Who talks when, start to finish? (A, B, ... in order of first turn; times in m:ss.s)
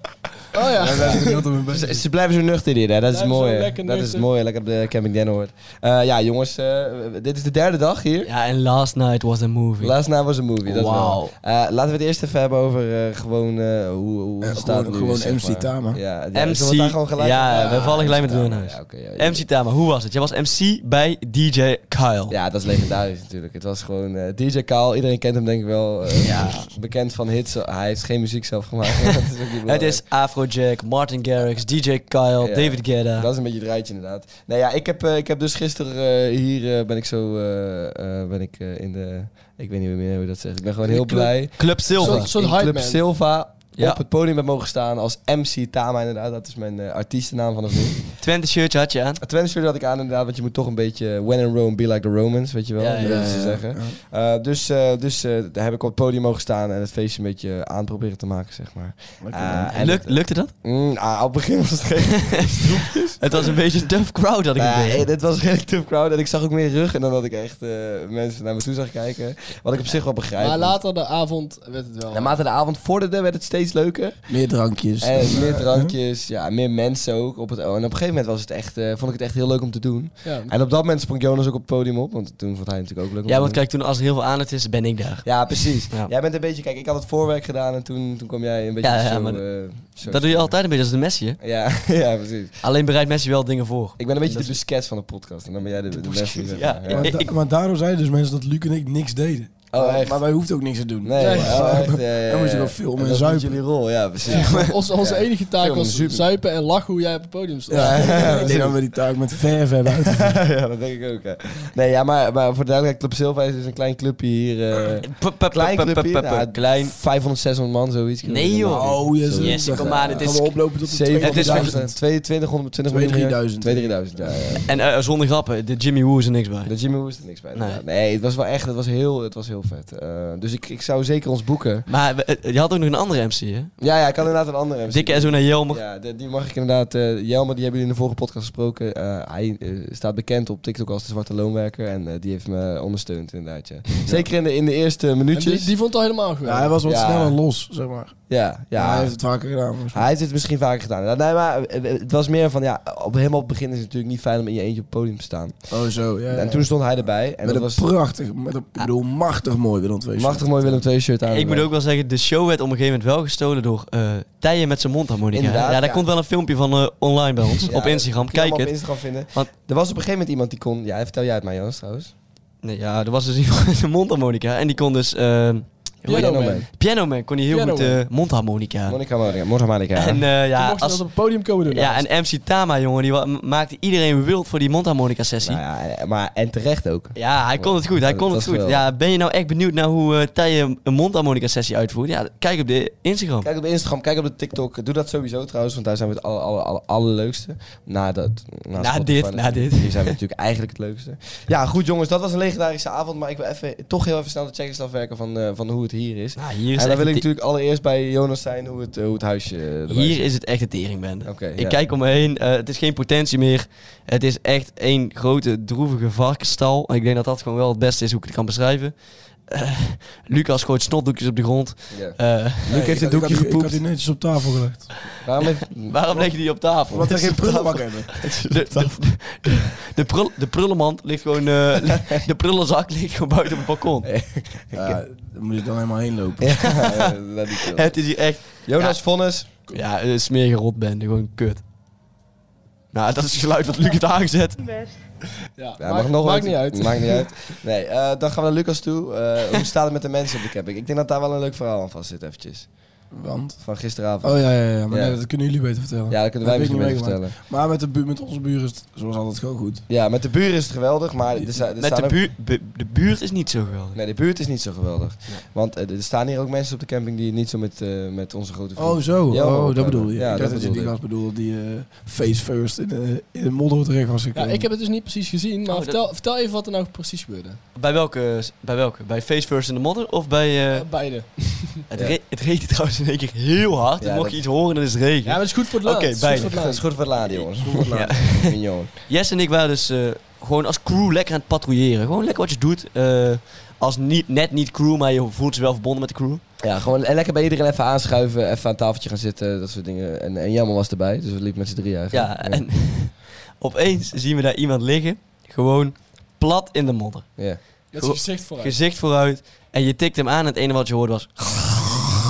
0:00.5-0:01.4 A
0:00.8-0:02.0 B
0:01.7-0:08.3 C
0:03.1-0:04.2 A
0:08.2-0:10.0 D
0:09.8-0:19.4 C
0:10.6-0:11.3 D
0:14.4-0:16.0 B
0:16.3-0:22.4 D
0:17.6-0:17.8 A
0:22.3-0:30.0 C
0:26.2-0:26.7 D
0:29.6-0:33.3 D
0:32.4-0:48.1 C
0:41.0-0:41.3 A
0:41.5-0:42.3 D
0:41.9-0:43.0 A
0:43.8-0:44.0 D
0:48.2-0:49.2 D
0:49.2-1:03.2 C
0:52.8-0:53.6 D
0:53.0-0:54.0 B
0:59.2-0:59.9 B
0:59.7-1:00.5 D
1:02.2-1:05.0 D
1:04.6-1:10.8 C
1:10.4-1:12.3 A
1:12.1-1:14.2 C
1:14.3-1:15.9 B
1:15.0-1:23.6 C
1:20.2-1:20.5 A
1:23.3-1:26.1 D
1:25.2-1:30.6 C
1:28.8-1:29.4 D
1:30.0-1:31.4 D
1:31.4-1:32.6 C
1:32.6-1:34.6 D
1:34.0-1:37.1 C
1:36.0-1:37.3 D
1:36.9-1:43.6 B
1:39.7-1:40.2 C
1:41.0-1:46.3 C
1:41.2-1:41.8 A
1:44.2-1:48.6 A
1:44.3-1:44.7 D
1:47.7-1:50.4 B
1:47.7-1:48.6 C
1:49.9-2:04.7 C
1:55.0-1:56.9 D
1:58.2-2:01.8 D
1:58.7-2:02.0 B
2:02.9-2:04.4 B
2:04.5-2:06.7 D
2:06.6-2:11.8 C
2:07.5-2:07.8 D
2:11.9-2:13.7 D
2:13.8-2:25.7 C
2:14.9-2:15.8 D
2:25.3-2:26.8 A
2:26.4-2:28.2 B
2:26.8-2:27.4 C
2:28.3-2:29.2 C
2:28.7-2:30.0 B
2:29.9-2:35.7 C
2:35.7-2:40.8 B
2:36.3-2:37.8 C
2:40.2-2:41.7 C
2:41.3-2:49.5 D
2:45.3-2:46.0 C
2:47.7-2:52.1 C
2:52.6-2:59.0 D
2:56.0-2:56.7 A
2:56.1-2:56.7 C
2:57.5-2:58.0 A
2:58.8-3:00.2 C
2:59.9-3:05.6 D
3:00.6-3:02.1 A
3:05.4-3:08.8 C
3:07.1-3:13.5 D
3:13.4-3:30.2 C
3:18.8-3:20.2 D
3:26.4-3:27.2 D
3:29.9-3:39.0 D
3:31.2-3:31.8 C
3:39.5-3:43.0 D
3:41.9-3:43.8 C
3:42.7-3:44.9 B
3:45.2-3:46.2 C
3:45.4-3:54.1 D
3:46.9-3:48.2 B
3:48.2-3:49.0 C
3:54.0-3:55.0 C
3:54.7-3:56.7 B
3:56.4-3:59.5 C
3:56.6-3:59.0 D
3:59.7-4:01.6 D
4:02.9-4:04.7 D
4:05.6-4:07.3 A
4:05.8-4:12.7 C
4:13.1-4:19.8 B
4:13.6-4:15.2 C
4:16.1-4:17.3 C
4:19.9-4:22.2 C
4:21.8-4:24.0 D
4:23.9-4:31.0 C
4:28.8-4:34.7 B
4:34.3-4:37.6 A
4:35.7-4:36.0 D
4:37.8-4:40.9 D
4:40.7-4:41.8 A
4:41.9-4:46.6 D
4:44.0-4:44.4 C
4:45.2-4:47.0 A
4:46.3-4:48.9 C
4:47.6-4:48.2 B
4:47.9-4:56.4 D
4:56.6-5:02.6 C
5:02.1-5:07.3 D
5:07.9-5:12.0 D
5:07.9-5:08.8 A